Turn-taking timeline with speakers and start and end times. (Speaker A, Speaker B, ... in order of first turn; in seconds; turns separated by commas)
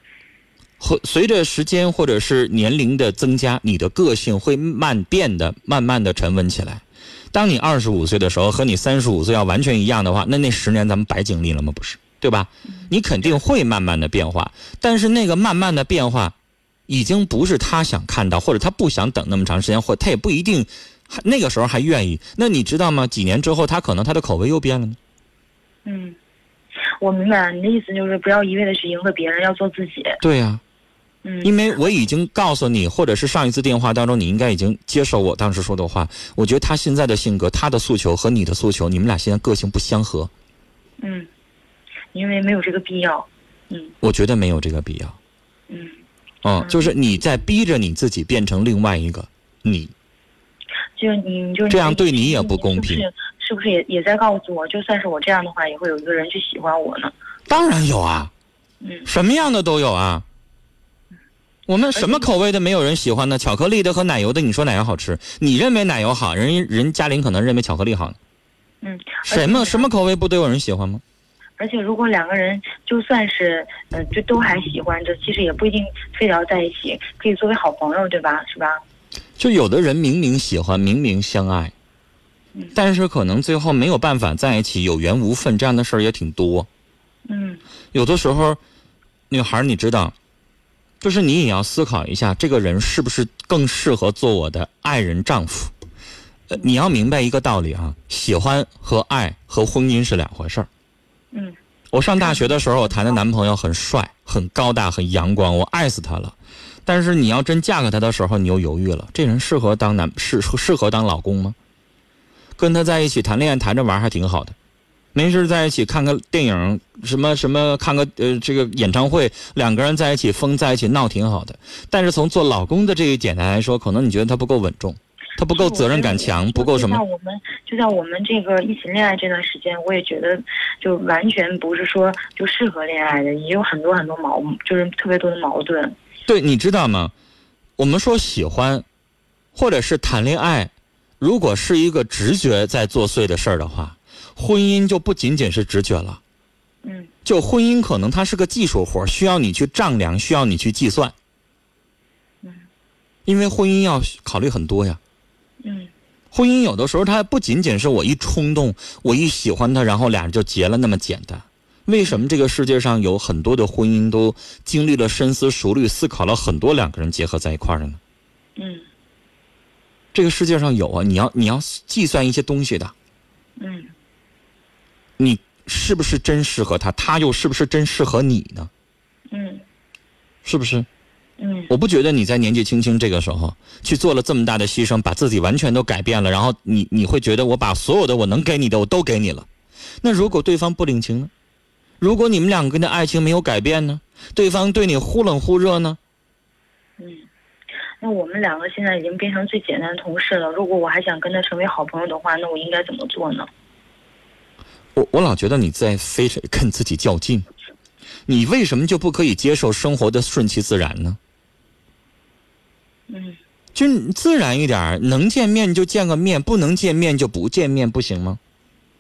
Speaker A: 0.8-16.3, Speaker A: 16.9-25.0, Speaker B: 25.9-26.2, Speaker B: 27.0-30.2, Speaker A: 30.2-30.6, Speaker B: 31.2-31.6, Speaker A: 31.4-40.3, Speaker B: 41.0-41.3, Speaker B: 42.1-43.9, Speaker A: 44.0-45.2, Speaker B: 45.7-46.0, Speaker A: 46.4-49.9, Speaker B: 46.6-46.9, Speaker B: 51.0-57.1, Speaker A: 51.7-53.1, Speaker A: 57.5-58.3, Speaker B: 58.8-59.1, Speaker A: 59.1-60.2, Speaker A: 61.7-68.2, Speaker B: 62.0-62.3, Speaker B: 68.8-69.9, Speaker A: 69.3-71.0, Speaker B: 71.6-78.8, Speaker A: 79.4-81.7, Speaker A: 82.8-86.7, Speaker B: 87.3-87.6, Speaker A: 87.9-88.6, Speaker A: 89.3-90.1, Speaker A: 91.0-95.7, Speaker A: 96.5-100.7, Speaker A: 101.9-111.6, Speaker B: 102.2-103.2, Speaker A: 112.6-114.5, Speaker A: 115.2-127.0, Speaker B: 125.5-135.9, Speaker A: 136.3-137.1, Speaker A: 137.8-138.8, Speaker A: 139.6-146.2, Speaker B: 146.8-147.1, Speaker A: 147.2-151.1, Speaker A: 153.3-155.0, Speaker B: 155.6-155.9, Speaker A: 156.3-168.0, Speaker B: 168.6-168.8, Speaker A: 170.1-172.9, Speaker B: 173.6-173.9, Speaker A: 175.2-178.7, Speaker B: 179.3-179.6, Speaker A: 180.4-180.9, Speaker B: 181.4-181.7, Speaker A: 181.7-189.5, Speaker A: 190.0-191.3, Speaker A: 192.0-196.0, Speaker B: 197.0-197.3, Speaker B: 198.0-203.5, Speaker A: 204.9-207.5, Speaker A: 208.3-211.2, Speaker B: 213.1-213.4, Speaker A: 213.8-218.4